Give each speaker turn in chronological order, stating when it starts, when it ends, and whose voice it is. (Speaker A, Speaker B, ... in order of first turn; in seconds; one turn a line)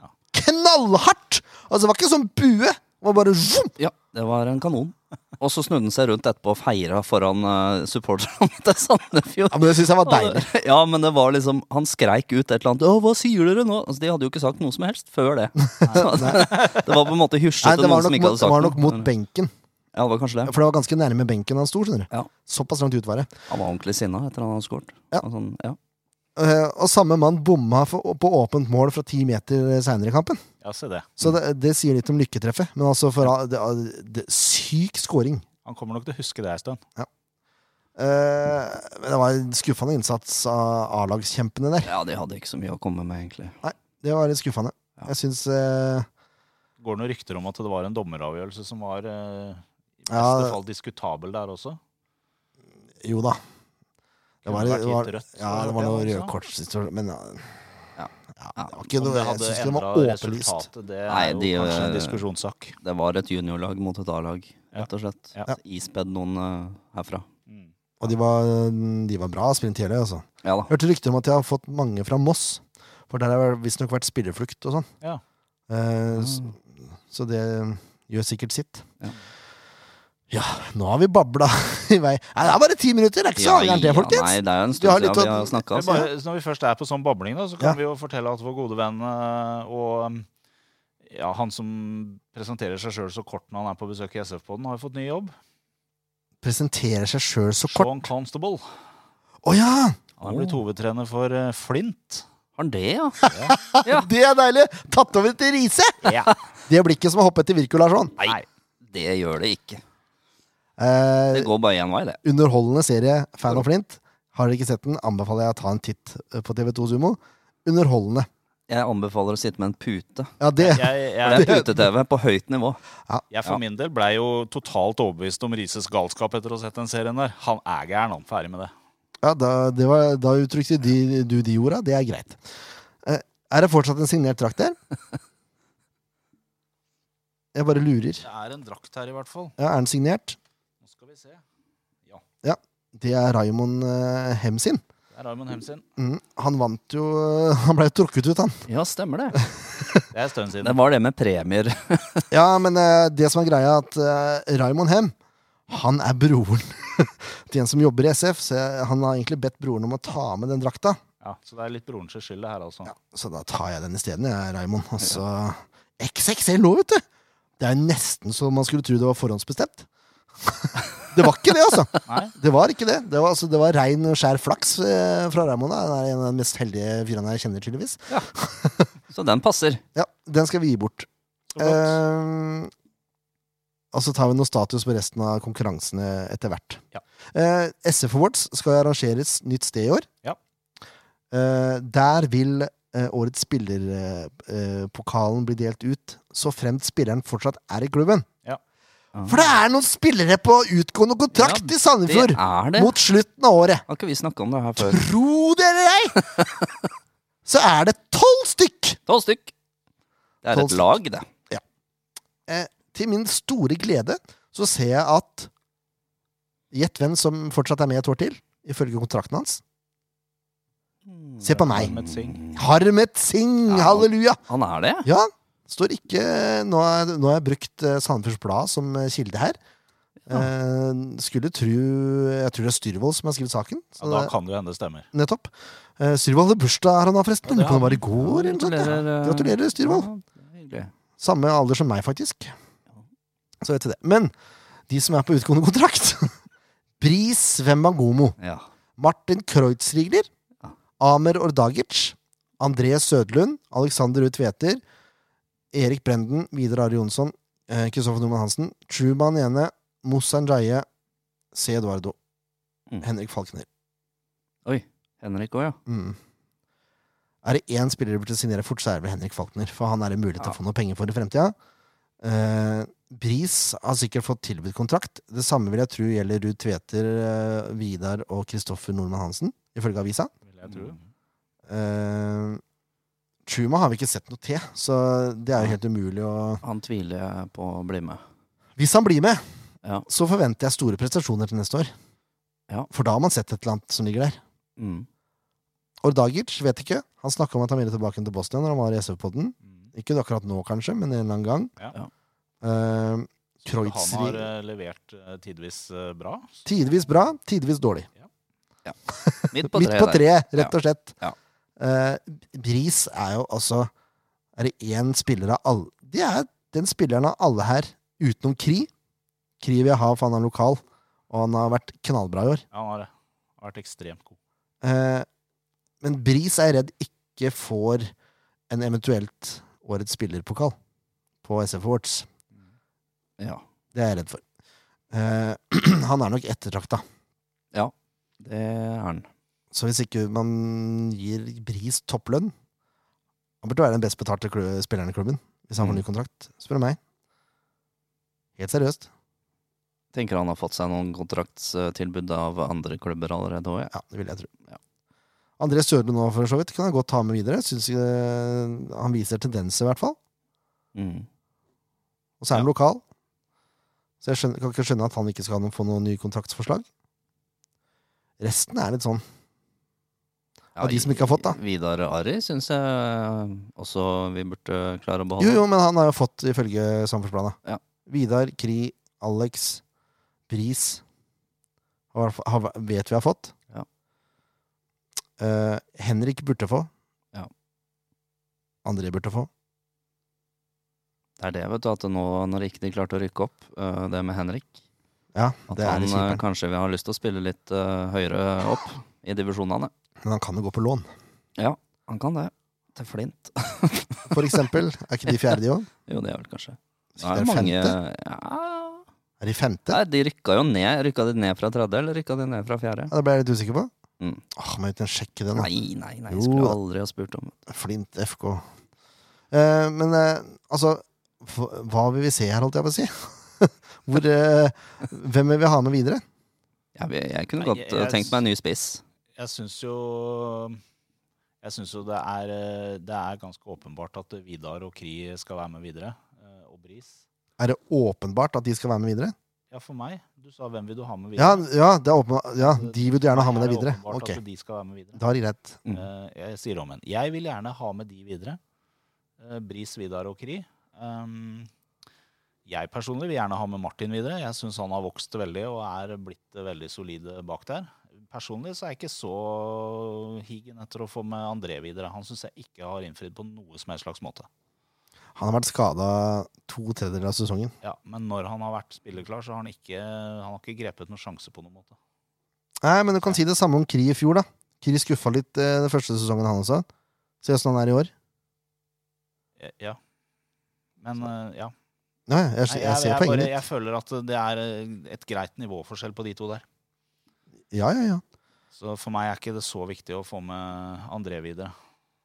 Speaker A: 0.3-3.8
Speaker B: 3.8-19.1
Speaker A: 9.5-10.5
Speaker A: 15.6-16.4
Speaker C: 15.8-16.8
Speaker A: 17.6-19.5
Speaker B: 19.9-20.5
Speaker A: 20.4-23.3
Speaker B: 23.5-25.8
Speaker A: 26.4-30.4
Speaker C: 30.6-31.1
Speaker A: 31.2-35.4
Speaker C: 35.6-36.8
Speaker A: 38.0-41.9
Speaker B: 41.8-43.5
Speaker A: 43.6-46.1
Speaker C: 46.8-51.8
Speaker A: 50.1-50.6
Speaker A: 53.0-53.4
Speaker A: 54.4-57.5
Speaker C: 54.5-56.3
Speaker B: 58.0-58.7
Speaker A: 58.4-60.6
Speaker C: 58.9-62.8
Speaker B: 61.1-62.2
Speaker B: 62.8-67.3
Speaker C: 64.7-65.5
Speaker A: 68.0-74.9
Speaker B: 70.4-70.7
Speaker A: 75.7-78.8
Speaker B: 76.1-76.5
Speaker A: 80.3-86.1
Speaker B: 83.3-86.1
Speaker C: 85.7-90.2
Speaker C: 91.0-95.3
Speaker A: 96.4-98.1
Speaker C: 97.6-98.6
Speaker A: 99.4-100.0
Speaker C: 100.2-102.2
Speaker B: 100.2-100.6
Speaker B: 102.6-103.2
Speaker A: 103.2-106.1
Speaker C: 103.3-103.6
Speaker B: 103.7-104.1
Speaker C: 106.0-106.3
Speaker A: 106.7-108.1
Speaker B: 108.2-109.8
Speaker C: 108.2-108.4
Speaker A: 110.8-111.5
Speaker B: 111.3-112.2
Speaker A: 112.2-118.3
Speaker B: 118.7-120.3
Speaker A: 120.4-121.8
Speaker C: 120.6-121.6
Speaker B: 121.2-122.8
Speaker C: 123.3-128.7
Speaker A: 129.2-132.4
Speaker A: 133.0-134.8
Speaker A: 137.5-138.2
Speaker C: 138.2-139.5
Speaker A: 139.6-140.4
Speaker C: 140.8-141.4
Speaker A: 142.4-144.8
Speaker C: 145.1-145.8
Speaker A: 146.0-148.7
Speaker B: 148.7-149.4
Speaker A: 149.4-150.0
Speaker C: 150.1-150.8
Speaker B: 150.6-152.3
Speaker A: 152.3-155.1
Speaker A: 155.7-161.0
Speaker C: 161.2-162.9
Speaker A: 162.8-167.0
Speaker A: 167.6-169.8
Speaker A: 170.4-178.9
Speaker C: 172.1-172.3
Speaker B: 179.1-179.8
Speaker A: 179.9-182.7
Speaker C: 181.5-182.0
Speaker A: 183.9-186.8
Speaker A: 187.3-190.1
Speaker A: 191.3-198.3
Speaker B: 199.1-199.5
Speaker A: 199.2-203.8
Speaker B: 201.3-202.9
Speaker B: 203.9-205.1
Speaker A: 204.8-206.2
Speaker B: 206.3-206.7
Speaker A: 207.4-209.0
Speaker B: 209.1-209.5
Speaker B: 210.4-211.3
Speaker A: 210.5-210.9
Speaker A: 212.5-215.5
Speaker A: 216.7-219.6
Speaker B: 221.0-222.6
Speaker A: 221.4-222.0
Speaker C: 221.6-222.4
Speaker A: 222.5-224.4
Speaker B: 223.7-225.1
Speaker A: 225.0-229.6
Speaker A: 230.3-234.3
Speaker C: 234.0-235.1
Speaker A: 235.1-240.1
Speaker C: 237.4-238.0
Speaker B: 238.1-240.9
Speaker A: 241.2-242.5
Speaker A: 243.6-244.3
Speaker A: 244.9-246.3
Speaker A: 247.0-248.3
Speaker B: 248.4-248.7
Speaker A: 249.0-250.3
Speaker A: 251.0-254.8
Speaker A: 255.7-260.9
Speaker A: 261.5-262.1
Speaker A: 263.0-263.7
Speaker B: 264.6-265.8
Speaker A: 265.9-266.2
Speaker A: 267.4-271.5
Speaker A: 272.2-280.3
Speaker C: 280.4-281.0
Speaker A: 281.7-282.6
Speaker A: 283.4-286.6
Speaker B: 286.6-288.2
Speaker A: 288.8-289.4
Speaker A: 290.1-291.9
Speaker A: 292.9-294.4
Speaker B: 294.8-295.1
Speaker A: 296.0-301.7
Speaker A: 302.6-304.5
Speaker C: 303.7-306.5
Speaker A: 306.6-308.1
Speaker A: 309.1-311.1
Speaker B: 309.5-311.4
Speaker A: 311.8-313.9
Speaker A: 314.6-318.9
Speaker A: 319.6-322.6
Speaker C: 322.7-324.4
Speaker A: 324.8-325.2
Speaker A: 326.0-328.1
Speaker A: 328.7-330.8
Speaker A: 331.4-332.3
Speaker A: 333.9-334.4
Speaker A: 335.1-337.0
Speaker B: 337.7-339.3
Speaker A: 339.7-342.5
Speaker A: 343.6-347.0
Speaker B: 345.8-346.0
Speaker A: 348.6-349.1
Speaker B: 350.1-353.9
Speaker A: 353.9-354.5
Speaker A: 355.6-360.2
Speaker B: 360.9-361.3
Speaker A: 362.4-363.0
Speaker A: 364.2-366.9
Speaker A: 368.4-369.2
Speaker B: 370.8-375.6
Speaker A: 370.8-371.6
Speaker A: 375.4-379.8
Speaker A: 380.5-381.0
Speaker A: 382.1-383.5
Speaker A: 385.4-386.9
Speaker A: 388.8-389.5
Speaker B: 391.4-394.8
Speaker A: 395.3-396.4
Speaker B: 395.7-399.9
Speaker A: 400.2-401.1
Speaker B: 401.6-404.6
Speaker A: 404.3-405.9
Speaker B: 405.3-409.0
Speaker A: 407.2-407.9
Speaker A: 409.4-410.0
Speaker B: 409.9-413.1
Speaker A: 413.1-413.9
Speaker A: 414.6-415.7
Speaker B: 415.5-417.5
Speaker A: 416.3-416.8
Speaker A: 417.7-418.6
Speaker A: 419.5-426.2
Speaker B: 426.9-429.0
Speaker C: 427.6-428.4
Speaker C: 429.4-430.8
Speaker C: 431.6-437.2
Speaker A: 437.6-439.3
Speaker C: 439.7-441.6
Speaker A: 441.4-444.4
Speaker C: 442.6-445.2
Speaker A: 445.1-445.8
Speaker C: 445.9-448.6
Speaker C: 449.4-451.7
Speaker C: 452.6-464.5
Speaker A: 465.4-467.7
Speaker C: 467.8-471.9
Speaker A: 472.8-476.9
Speaker A: 477.4-478.1
Speaker C: 479.6-480.0
Speaker C: 481.0-481.7
Speaker A: 482.3-483.5
Speaker C: 482.7-486.6
Speaker A: 487.7-488.2
Speaker C: 488.7-491.7